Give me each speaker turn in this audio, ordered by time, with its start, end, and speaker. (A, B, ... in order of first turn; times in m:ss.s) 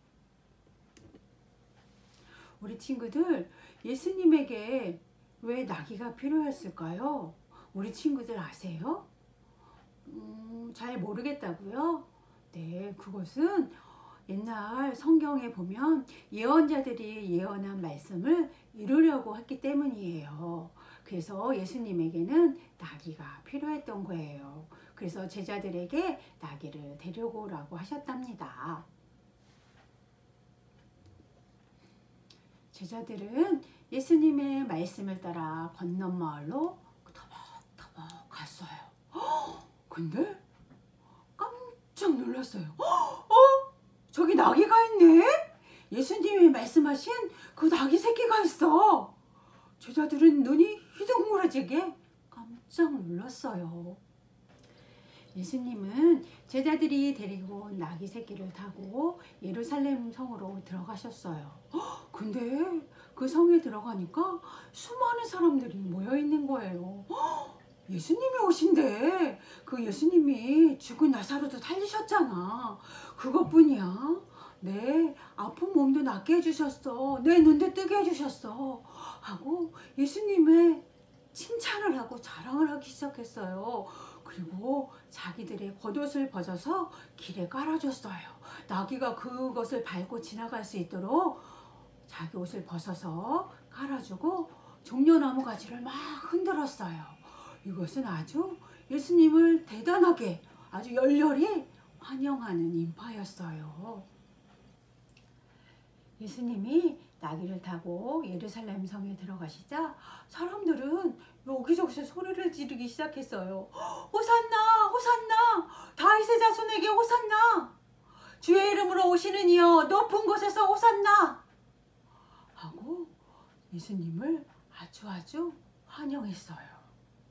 0:02.6-0:09.1 A
0:10.0-0:28.9 A
0:32.7-0:40.4 A
0:41.4-0:49.2 A
0:49.8-0:54.0 A
0:55.3-1:44.1 A
1:46.2-1:57.8 A
1:58.4-2:01.4 A
2:02.6-2:03.2 A
2:03.7-2:06.9 A